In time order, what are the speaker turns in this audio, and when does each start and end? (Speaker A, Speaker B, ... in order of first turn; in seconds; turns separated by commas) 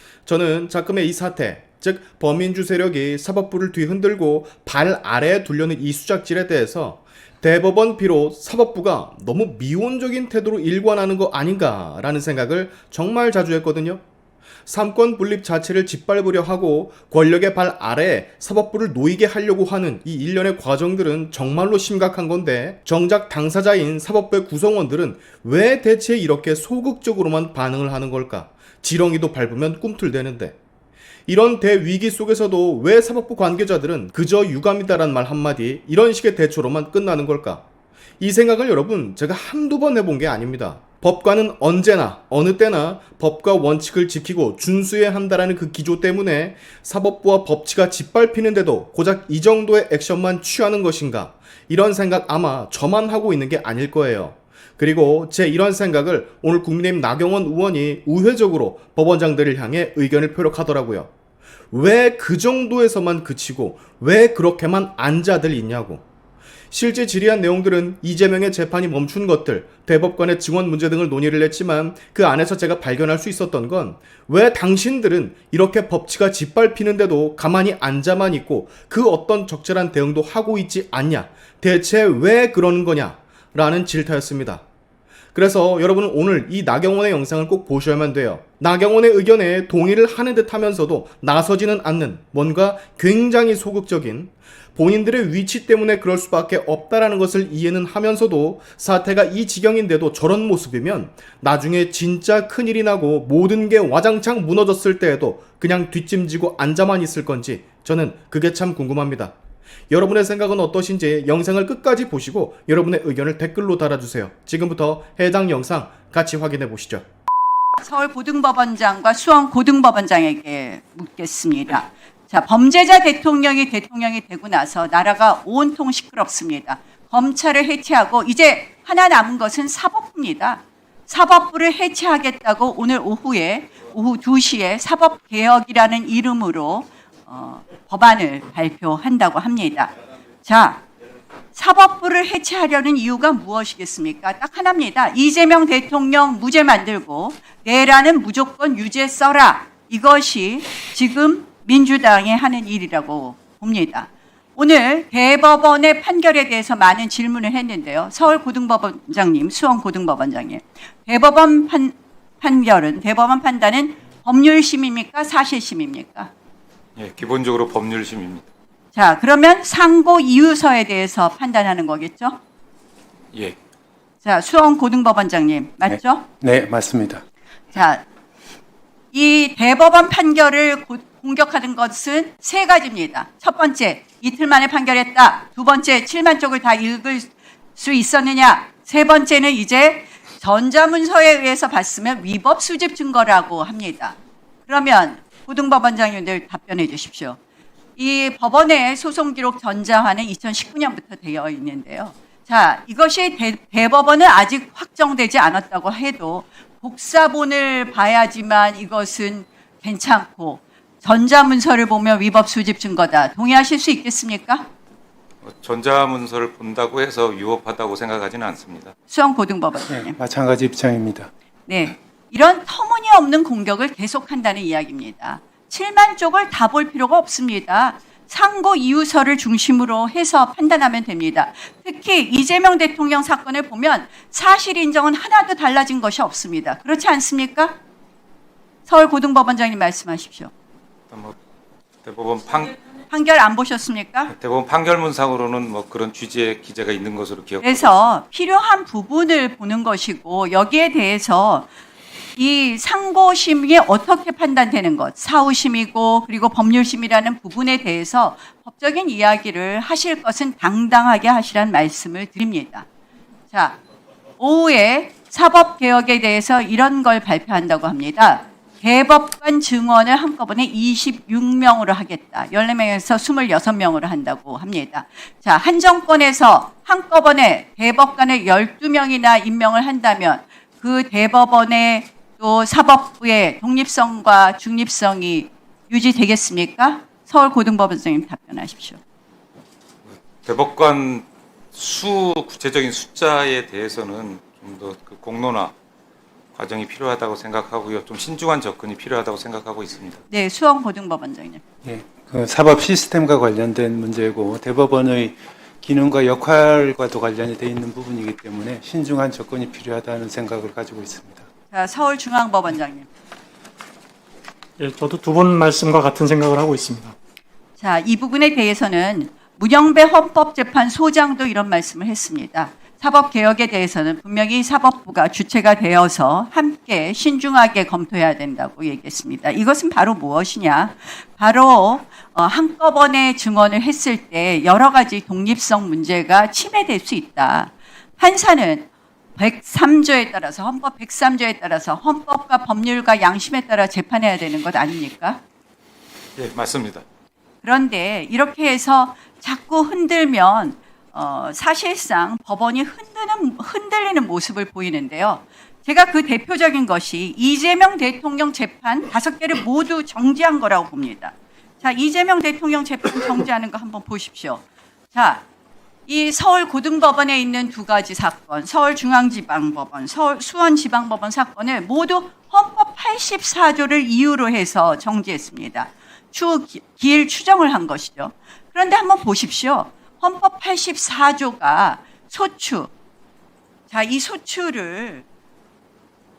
Speaker A: 0.3-14.0, Speaker A: 14.7-30.6, Speaker A: 31.3-37.6, Speaker A: 38.2-61.1, Speaker A: 61.7-66.0, Speaker A: 66.7-84.6, Speaker A: 85.3-109.3, Speaker A: 109.9-117.0, Speaker B: 117.8-139.9, Speaker B: 140.4-140.8, Speaker B: 141.5-166.3, Speaker C: 167.0-168.4, Speaker B: 168.9-172.4, Speaker B: 174.2-176.3, Speaker D: 175.9-177.2, Speaker B: 177.7-178.0, Speaker B: 179.1-194.2, Speaker B: 194.7-197.4, Speaker B: 198.0-214.7, Speaker C: 215.4-218.9, Speaker B: 219.1-220.2, Speaker D: 219.9-221.3, Speaker B: 221.7-237.8, Speaker B: 238.9-240.5, Speaker C: 241.1-241.3, Speaker C: 242.0-242.8, Speaker B: 243.1-244.3, Speaker C: 244.3-248.1, Speaker B: 247.6-251.7, Speaker B: 252.4-262.9, Speaker B: 263.5-263.8, Speaker B: 264.4-289.0, Speaker C: 290.4-295.7, Speaker C: 296.6-300.2, Speaker B: 300.3-301.6, Speaker D: 301.8-311.5, Speaker B: 311.7-313.1, Speaker E: 314.8-317.1, Speaker B: 317.8-345.4, Speaker C: 346.4-347.0, Speaker B: 347.6-365.4, Speaker B: 366.1-382.9, Speaker B: 383.9-385.2